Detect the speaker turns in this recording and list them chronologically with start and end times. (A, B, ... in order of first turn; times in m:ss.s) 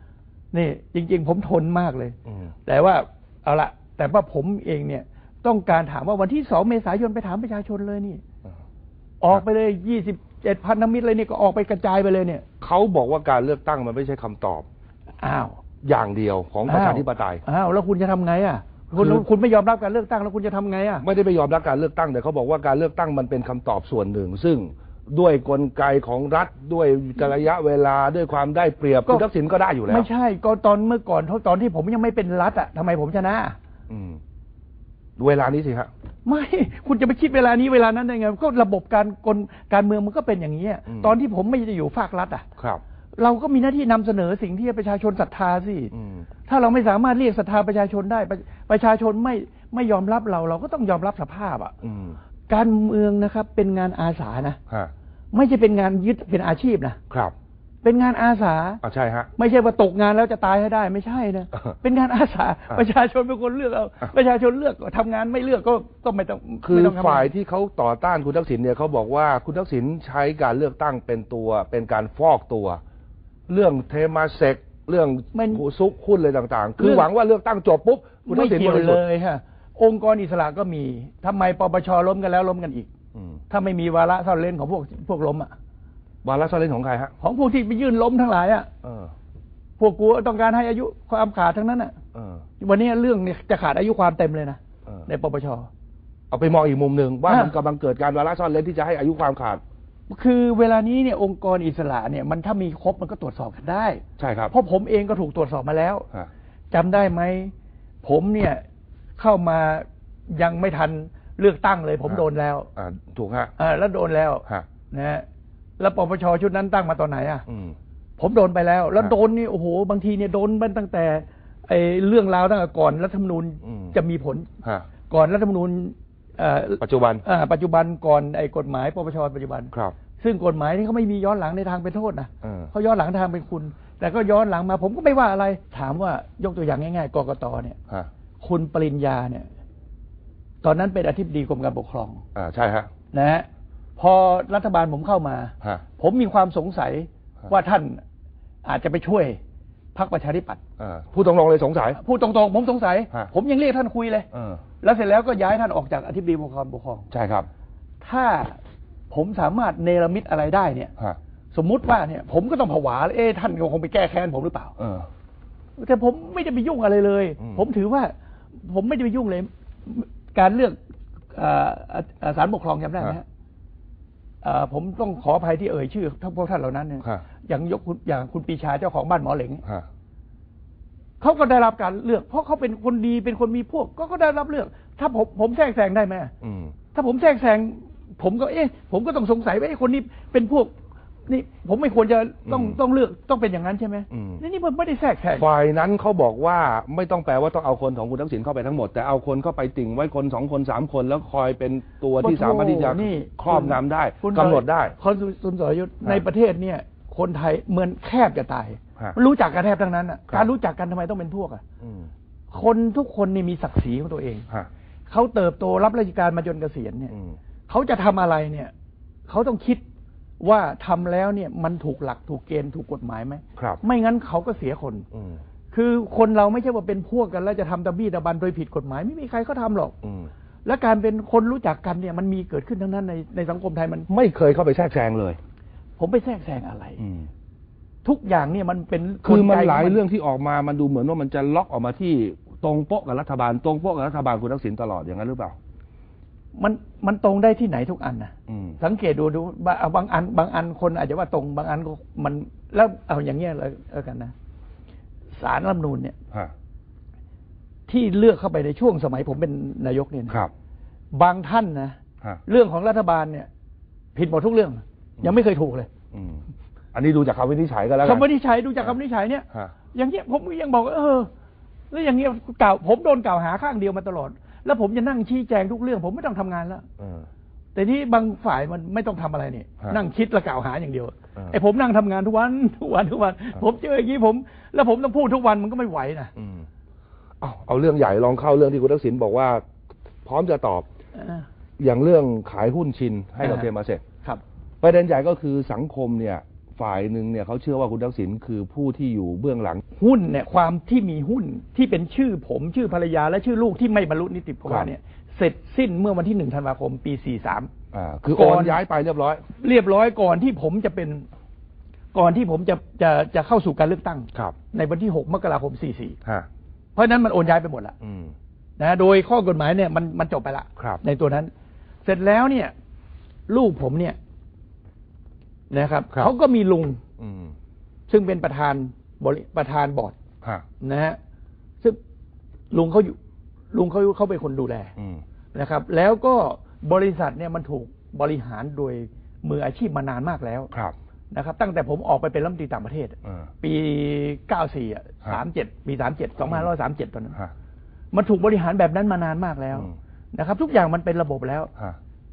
0:00.5-0:08.2 A
0:09.2-0:12.5 A
0:12.6-0:14.7 B
0:15.2-0:15.6 A
0:15.8-0:17.4 B
0:16.7-0:21.0 A
0:19.0-0:19.2 B
0:21.0-0:30.1 B
0:29.9-0:33.6 A
0:33.9-0:34.2 B
0:35.2-0:35.9 B
0:36.2-0:42.5 A
0:40.9-0:41.1 B
0:43.2-0:45.9 A
0:45.9-0:46.3 B
0:46.5-0:51.7 A
0:51.8-0:52.2 B
0:52.5-0:54.6 A
0:55.3-0:57.0 A
0:57.8-0:58.8 A
0:58.8-0:59.3 B
0:59.4-1:07.3 A
1:06.6-1:12.8 B
1:13.5-1:19.0 B
1:15.3-1:15.6 A
1:16.8-1:17.1 A
1:18.3-1:22.9 A
1:23.5-1:25.5 A
1:26.2-1:27.1 B
1:27.2-1:28.7 A
1:28.8-1:29.1 B
1:29.8-1:32.0 A
1:32.2-1:32.4 B
1:32.6-1:35.7 A
1:36.3-1:39.6 B
1:37.3-1:37.5 A
1:40.1-1:46.1 A
1:44.2-1:44.5 B
1:46.7-1:48.6 A
1:49.2-1:52.7 A
1:52.8-1:53.5 B
1:53.6-1:55.2 A
1:55.8-1:57.4 A
1:57.5-1:57.8 B
1:58.2-2:04.5 A
2:03.6-2:04.0 B
2:05.1-2:17.8 A
2:06.8-2:07.2 B
2:12.4-2:12.7 B
2:18.4-2:19.5 A
2:20.6-2:22.2 A
2:22.4-2:22.9 B
2:23.1-2:28.0 A
2:28.6-2:29.4 A
2:30.0-2:30.6 A
2:30.8-2:32.0 B
2:32.0-2:34.3 A
2:34.3-2:34.6 B
2:34.8-2:37.1 A
2:37.1-2:37.5 B
2:38.0-2:38.6 A
2:39.1-2:40.9 A
2:41.5-2:44.7 A
2:44.8-2:45.1 B
2:45.8-2:50.8 A
2:51.3-2:53.2 A
2:54.4-2:59.6 A
3:01.2-3:06.3 A
3:06.4-3:06.7 B
3:06.9-3:10.7 A
3:11.3-3:15.5 A
3:12.5-3:12.8 B
3:14.1-3:14.4 B
3:15.4-3:25.0 B
3:22.2-3:31.6 A
3:31.8-3:32.1 B
3:32.5-3:34.5 A
3:35.1-3:37.1 A
3:37.7-3:38.7 A
3:39.3-3:39.8 A
3:40.4-3:45.1 A
3:45.1-3:45.4 B
3:45.7-3:50.0 A
3:50.0-3:50.3 B
3:50.6-3:54.1 A
3:54.1-3:55.4 B
3:56.0-3:57.0 A
3:57.0-3:57.3 B
3:58.0-4:00.0 A
3:59.2-4:05.6 B
4:06.6-4:14.3 A
4:08.5-4:08.8 B
4:15.3-4:16.2 A
4:17.9-4:20.4 A
4:21.1-4:23.5 A
4:24.2-4:25.9 A
4:26.1-4:28.3 B
4:28.0-4:31.3 A
4:31.9-4:36.8 A
4:37.0-4:37.3 B
4:37.8-4:46.3 A
4:46.4-4:46.7 B
4:47.4-4:49.6 B
4:50.2-4:50.9 B
4:51.2-4:51.5 A
4:51.8-4:54.0 B
4:53.4-4:53.7 A
4:54.8-4:59.8 B
5:00.0-5:07.7 A
5:07.9-5:09.4 B
5:08.4-5:08.8 A
5:09.5-5:11.2 A
5:12.1-5:16.2 A
5:17.0-5:18.0 A
5:18.0-5:18.4 B
5:18.8-5:21.5 A
5:22.0-5:22.7 A
5:23.5-5:24.2 A
5:25.7-5:27.0 A
5:27.2-5:27.6 B
5:28.1-5:30.2 A
5:30.8-5:31.2 A
5:32.7-5:33.2 A
5:33.7-5:34.9 A
5:35.5-5:40.7 A
5:41.3-5:47.4 A
5:48.1-5:51.7 A